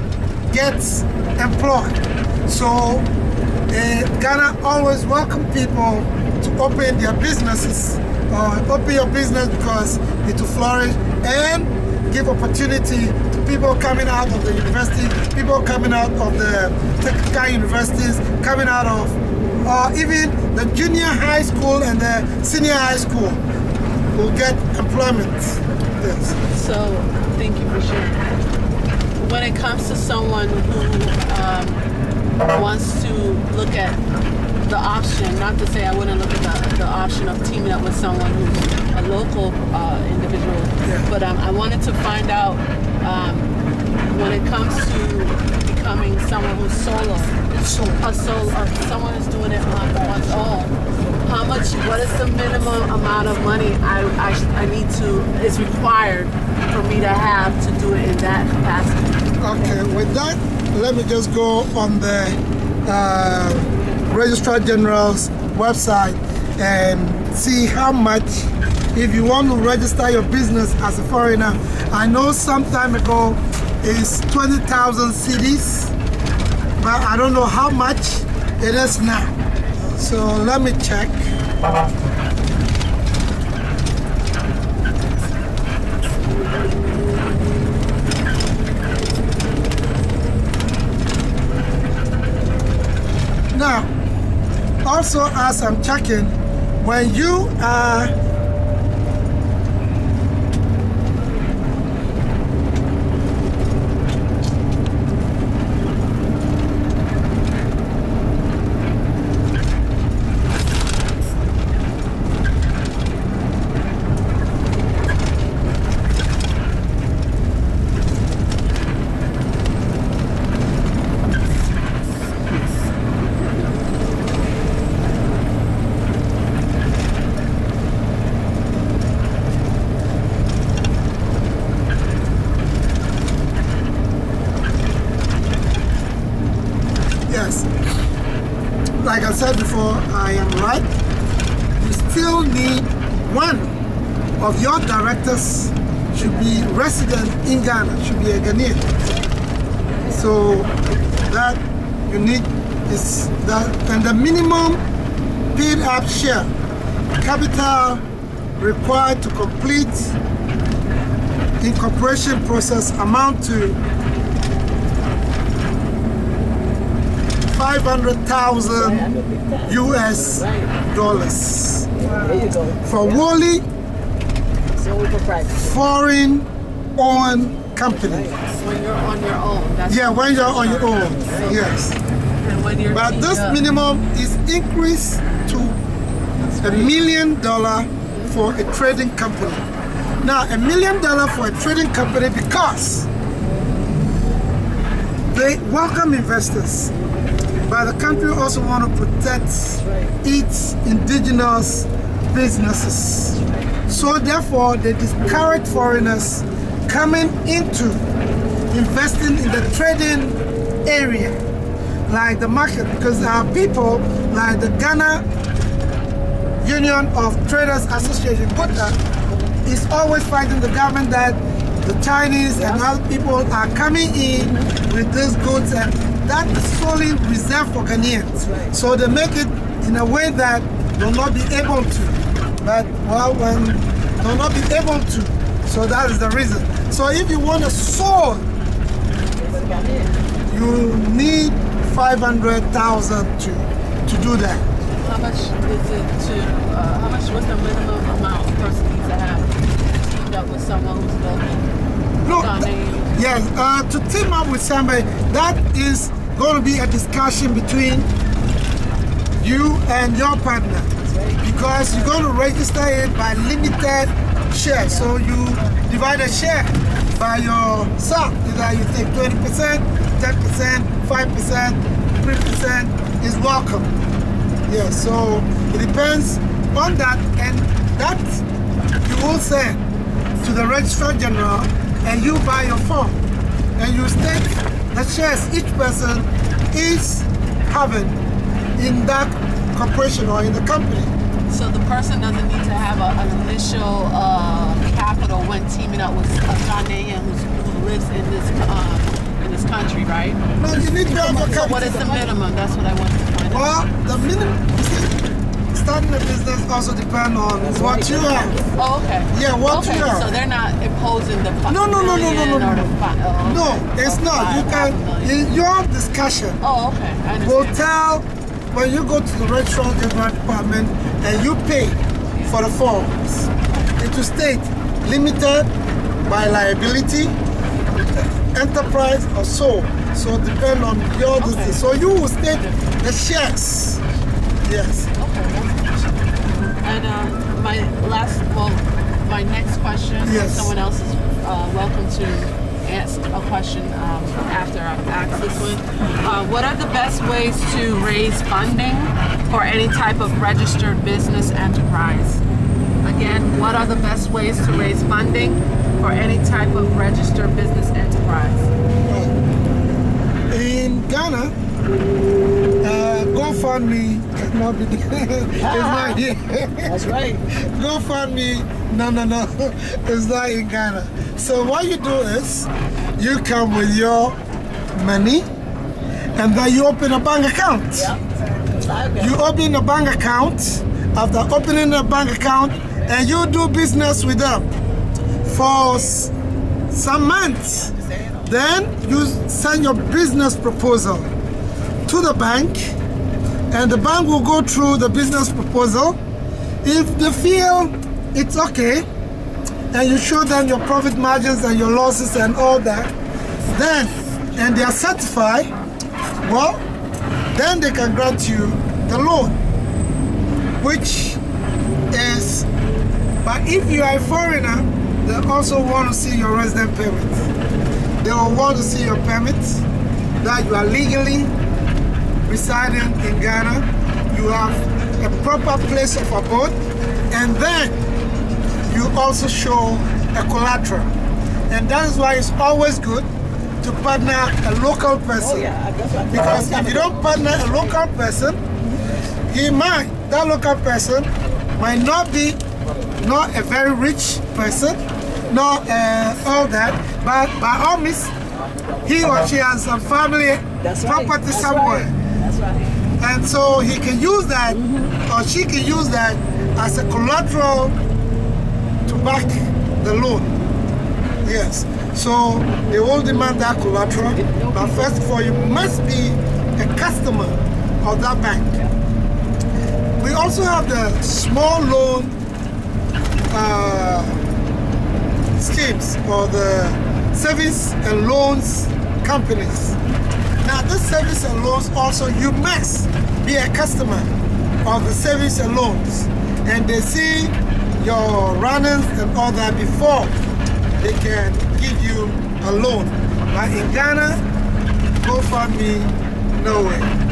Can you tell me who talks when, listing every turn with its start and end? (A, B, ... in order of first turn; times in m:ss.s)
0:00.5-0:03.1 A
0:03.7-0:23.4 A
0:24.1-0:26.4 A
0:26.5-0:28.4 B
0:29.2-0:31.8 B
0:32.5-0:34.0 B
0:34.6-0:47.4 B
0:47.5-0:48.0 A
0:48.0-0:50.7 B
0:51.2-0:59.3 B
0:59.4-1:15.9 A
1:16.8-1:19.4 A
1:20.0-1:21.3 A
1:33.5-1:33.9 A
1:34.8-1:38.1 A
2:17.3-2:17.7 A
2:19.0-2:20.9 A
2:21.8-2:23.7 A
2:24.4-2:28.9 A
2:30.1-2:34.8 A
2:35.6-2:36.5 A
2:37.2-2:38.0 A
2:38.6-2:40.2 A
2:41.6-2:43.8 A
2:47.5-2:49.1 A
2:48.8-2:50.8 C
2:49.7-2:52.1 A
2:52.0-2:53.2 C
2:52.8-2:53.7 A
2:54.8-2:55.7 C
2:55.6-2:58.3 A
2:57.9-2:58.5 C
2:58.6-3:01.8 B
2:59.9-3:02.0 A
3:01.2-3:01.6 C
3:02.4-3:03.6 B
3:02.9-3:05.8 A
3:06.6-3:09.6 A
3:10.2-3:13.1 A
3:15.3-3:16.9 A
3:17.7-3:28.0 A
3:19.8-3:20.1 C
3:28.7-3:31.4 A
3:32.1-3:35.3 A
3:36.6-3:58.5 A
3:42.6-3:42.8 C
3:44.4-3:44.8 C
3:48.4-3:48.7 C
3:59.4-4:00.2 C
4:00.5-4:04.6 A
4:05.0-4:11.7 B
4:12.2-4:18.1 A
4:12.3-4:13.2 B
4:19.4-4:20.9 A
4:21.0-4:22.1 C
4:21.4-4:33.9 A
4:34.7-4:38.4 A
4:39.0-4:39.8 A
4:40.4-4:43.2 A
4:43.8-4:48.2 A
4:48.8-4:51.1 A
4:51.5-5:00.4 B
5:00.6-5:02.0 A
5:00.8-5:02.3 C
5:01.3-5:04.0 B
5:03.5-5:05.2 A
5:05.7-5:08.6 A
5:07.6-5:09.1 C
5:08.8-5:15.4 B
5:09.3-5:10.4 A
5:11.7-5:16.6 A
5:16.6-5:17.9 B
5:17.4-5:25.7 A
5:23.6-5:23.9 B
5:26.2-5:27.4 A
5:27.8-5:28.3 B
5:28.3-5:34.0 A
5:31.4-5:32.0 B
5:34.6-5:35.1 A
5:35.2-5:52.4 B
5:40.2-5:40.7 A
5:53.0-5:58.7 B
5:59.1-5:59.3 A
6:00.5-6:01.5 A
6:02.8-6:14.4 A
6:05.6-6:06.2 C
6:06.8-6:07.4 C
6:15.0-6:15.5 A
6:16.4-6:18.1 A
6:18.0-6:19.4 C
6:19.2-6:24.7 A
6:25.4-6:26.3 A
6:26.9-6:27.9 A
6:27.8-6:28.5 C
6:28.4-6:31.3 A
6:32.1-6:33.0 A
6:33.7-6:36.2 A
6:36.8-6:39.1 A
6:39.9-6:43.1 A
6:43.7-6:45.7 A
6:46.4-6:46.8 A
6:47.5-6:49.6 A
6:50.8-6:51.4 A
6:52.1-6:52.7 A
6:53.4-6:57.5 A
6:58.2-6:59.8 A
7:00.4-7:01.5 A
7:02.5-7:06.8 A
7:07.3-7:08.0 A
7:08.9-7:11.1 A
7:11.7-7:13.3 A
7:13.8-7:15.7 A
7:15.4-7:18.0 C
7:16.3-7:18.6 A
7:19.5-7:22.6 A
7:23.2-7:28.3 A
7:29.0-7:32.1 A
7:30.8-7:33.0 C
7:33.2-7:38.0 A
7:34.7-7:35.2 C
7:39.1-7:40.6 A
7:41.4-7:48.8 A
7:44.2-7:45.1 C
7:50.2-7:52.4 A
7:53.5-7:54.4 A
7:55.6-8:00.0 A
8:00.6-8:04.3 A
8:04.8-8:10.3 A
8:11.0-8:14.4 A
8:15.2-8:17.1 A